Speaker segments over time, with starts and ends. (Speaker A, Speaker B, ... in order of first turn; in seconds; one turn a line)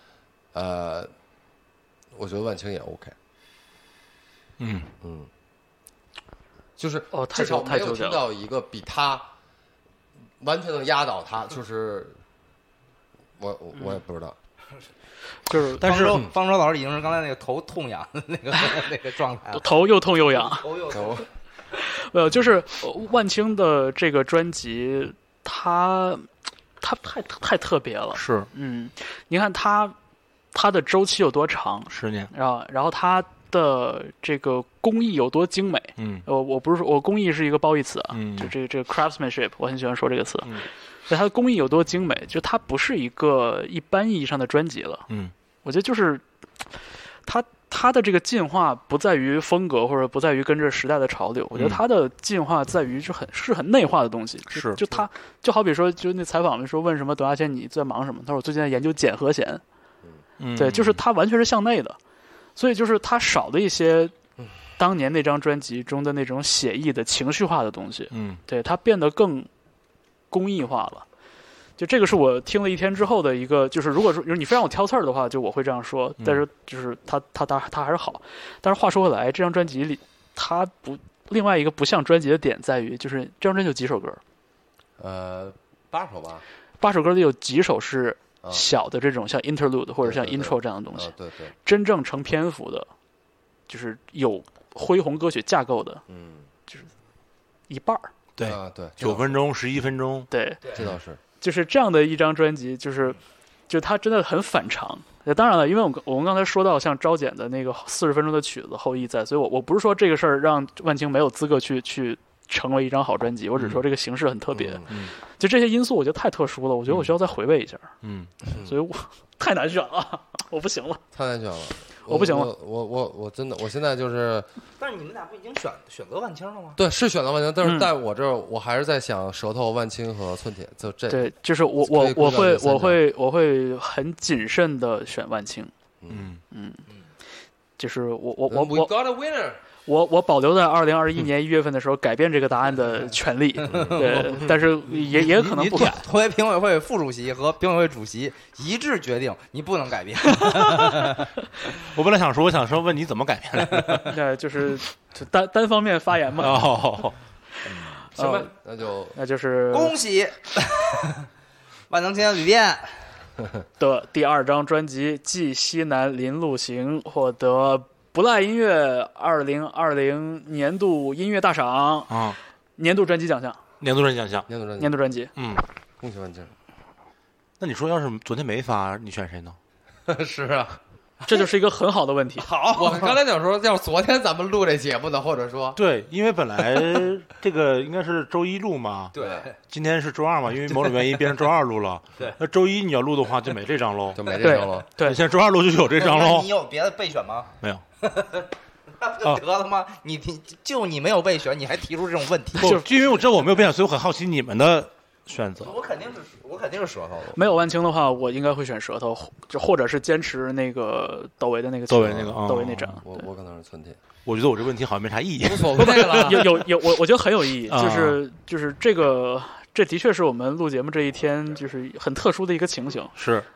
Speaker A: 0.5-1.1
Speaker A: 2.1-3.1
Speaker B: 4.6-4.9
Speaker A: 5.0-5.3
Speaker A: 6.8-9.3
Speaker C: 7.1-8.2
Speaker A: 10.4-12.2
Speaker A: 13.4-14.3
Speaker C: 15.5-15.8
Speaker B: 15.8-16.2
Speaker D: 15.8-19.7
Speaker A: 16.1-16.3
Speaker C: 19.5-20.7
Speaker D: 20.3-21.2
Speaker A: 20.9-21.3
Speaker C: 21.7-26.3
Speaker C: 26.8-29.9
Speaker B: 28.1-28.5
Speaker C: 30.5-45.0
Speaker B: 31.9-32.3
Speaker B: 36.0-36.2
Speaker B: 38.1-38.5
Speaker C: 45.6-46.2
Speaker C: 47.3-59.6
Speaker B: 51.5-51.8
Speaker B: 54.5-54.8
Speaker B: 60.4-61.0
Speaker C: 60.5-62.0
Speaker C: 62.6-64.1
Speaker C: 64.8-69.5
Speaker B: 68.1-68.4
Speaker C: 70.3-71.0
Speaker C: 71.8-84.2
Speaker A: 85.0-86.4
Speaker C: 86.8-91.1
Speaker A: 90.0-91.5
Speaker C: 91.6-92.9
Speaker C: 93.7-96.0
Speaker A: 96.1-96.5
Speaker C: 97.7-98.1
Speaker B: 98.4-100.3
Speaker A: 98.4-99.3
Speaker C: 100.3-100.6
Speaker A: 100.8-101.2
Speaker C: 101.4-117.9
Speaker A: 114.5-115.0
Speaker B: 114.9-115.1
Speaker B: 116.9-117.1
Speaker B: 118.0-118.3
Speaker C: 118.5-121.0
Speaker A: 121.1-124.5
Speaker C: 122.1-122.5
Speaker D: 124.8-126.8
Speaker A: 126.8-131.3
Speaker C: 127.6-127.9
Speaker C: 131.1-135.7
Speaker A: 131.8-133.0
Speaker A: 136.0-136.3
Speaker B: 136.1-136.4
Speaker C: 136.5-136.8
Speaker C: 137.8-138.9
Speaker A: 138.5-139.6
Speaker C: 139.9-146.1
Speaker A: 143.7-144.0
Speaker D: 143.7-151.3
Speaker C: 150.4-150.8
Speaker B: 151.8-154.1
Speaker D: 153.6-154.0
Speaker C: 154.1-156.6
Speaker B: 156.4-157.2
Speaker D: 157.7-158.0
Speaker C: 157.8-158.5
Speaker A: 158.2-159.2
Speaker C: 159.2-160.0
Speaker D: 159.7-161.3
Speaker D: 161.9-163.0
Speaker C: 163.8-172.1
Speaker B: 172.1-172.4
Speaker C: 172.8-173.6
Speaker B: 173.8-174.5
Speaker A: 174.5-174.9
Speaker C: 174.8-175.3
Speaker B: 175.4-175.6
Speaker A: 176.0-176.5
Speaker B: 177.6-179.6
Speaker A: 180.1-180.8
Speaker C: 181.3-182.5
Speaker D: 182.4-183.2
Speaker A: 182.7-185.8
Speaker B: 185.8-189.2
Speaker D: 189.1-189.6
Speaker A: 189.2-189.4
Speaker B: 189.7-196.5
Speaker D: 190.7-191.2
Speaker A: 194.1-194.9
Speaker C: 194.4-195.2
Speaker D: 196.0-202.8
Speaker B: 202.6-205.7
Speaker C: 202.6-202.9
Speaker D: 205.6-207.4
Speaker C: 207.3-213.2
Speaker B: 211.9-213.0
Speaker A: 212.1-212.4
Speaker A: 213.0-214.0
Speaker B: 214.3-216.5
Speaker A: 215.4-216.6
Speaker C: 215.8-223.1
Speaker B: 217.7-218.2
Speaker B: 223.2-223.5